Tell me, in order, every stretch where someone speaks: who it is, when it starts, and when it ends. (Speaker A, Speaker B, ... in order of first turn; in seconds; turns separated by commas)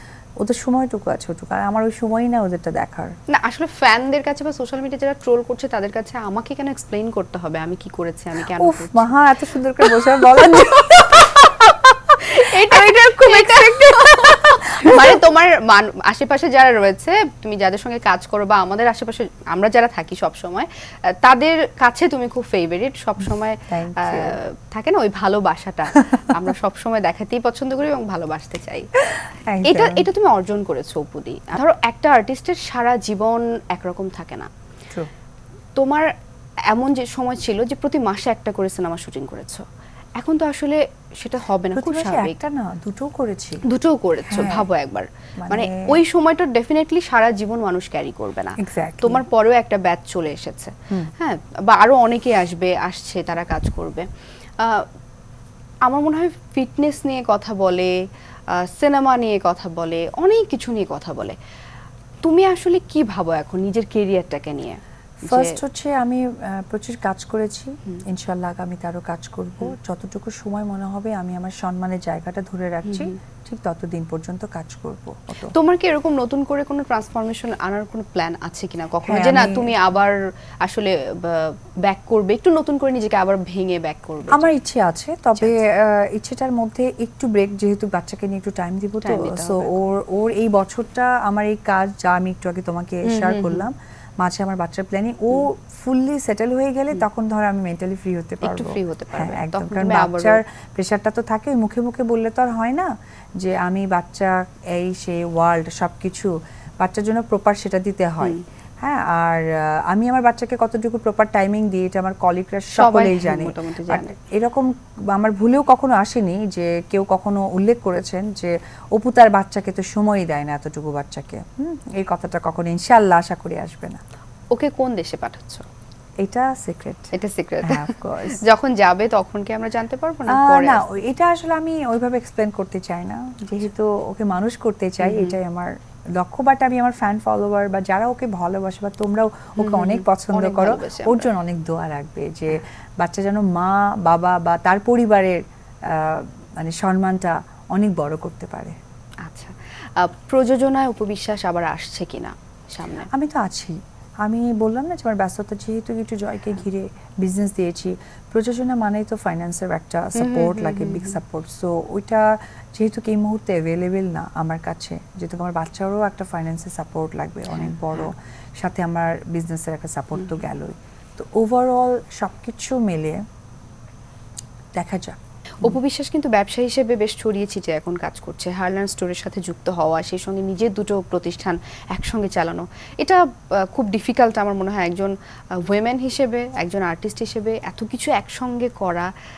Speaker A: 0.4-3.1, Speaker B: 3.3-9.1, Speaker A: 8.5-11.1, Speaker B: 9.8-28.9, Speaker A: 12.7-15.2, Speaker A: 23.7-24.4, Speaker A: 29.5-30.1, Speaker B: 29.6-34.5, Speaker B: 35.8-36.1, Speaker B: 36.7-39.6, Speaker B: 40.2-42.4, Speaker A: 41.7-43.6, Speaker B: 43.6-54.1, Speaker A: 44.2-44.6, Speaker A: 45.4-45.9, Speaker A: 48.6-49.2, Speaker B: 54.6-54.9, Speaker B: 55.9-58.0, Speaker B: 58.5-61.4, Speaker B: 62.2-65.6, Speaker A: 65.2-75.5, Speaker B: 72.8-73.2, Speaker B: 75.5-84.5, Speaker A: 79.0-79.7, Speaker A: 84.3-124.0, Speaker B: 89.0-89.8, Speaker B: 93.0-93.7, Speaker B: 98.4-100.4, Speaker B: 112.7-114.1, Speaker B: 124.5-125.7, Speaker A: 126.2-127.1, Speaker B: 127.1-130.8, Speaker A: 127.6-128.4, Speaker A: 130.3-148.8, Speaker B: 135.0-135.3, Speaker B: 139.6-141.3, Speaker B: 149.2-153.1, Speaker A: 153.1-173.2, Speaker B: 160.2-161.2, Speaker B: 167.5-168.1, Speaker B: 170.2-170.4, Speaker A: 174.8-175.8, Speaker B: 175.6-189.1